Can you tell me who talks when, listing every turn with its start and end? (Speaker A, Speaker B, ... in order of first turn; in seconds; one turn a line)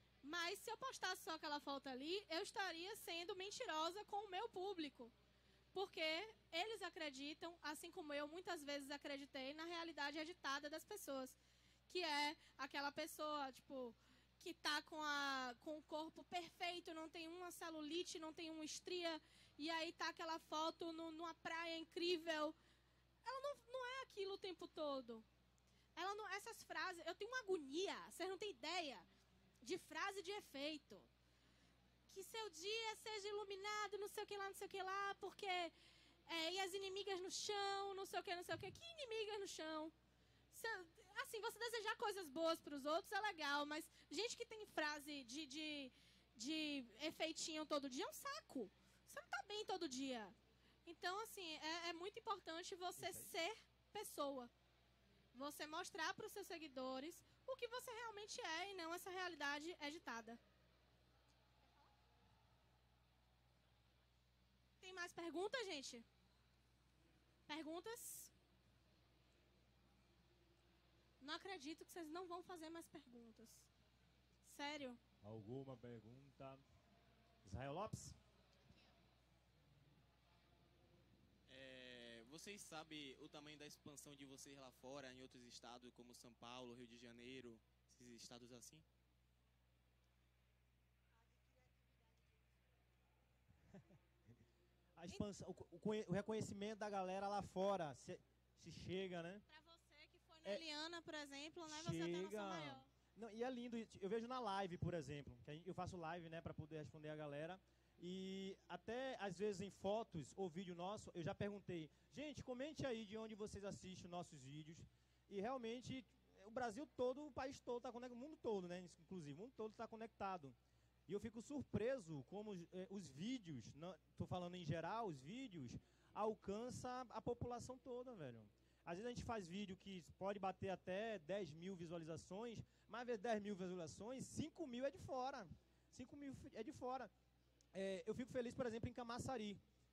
Speaker A: 0.2-5.1
Speaker A: 5.7-11.4
Speaker A: 11.9-22.6
Speaker A: 23.2-25.2
Speaker A: 25.9-29.1
Speaker A: 29.6-31.1
Speaker A: 32.1-35.7
Speaker A: 36.3-39.9
Speaker A: 40.5-54.5
Speaker B: 53.0-53.3
Speaker A: 55.3-60.4
Speaker A: 64.8-66.0
Speaker A: 67.5-68.3
Speaker A: 71.2-73.7
Speaker A: 74.4-75.0
Speaker B: 75.2-76.6
Speaker B: 77.4-78.2
Speaker C: 81.5-88.8
Speaker B: 95.0-99.4
Speaker A: 99.5-102.9
Speaker B: 101.7-120.5
Speaker B: 121.1-137.1
Speaker B: 137.7-139.6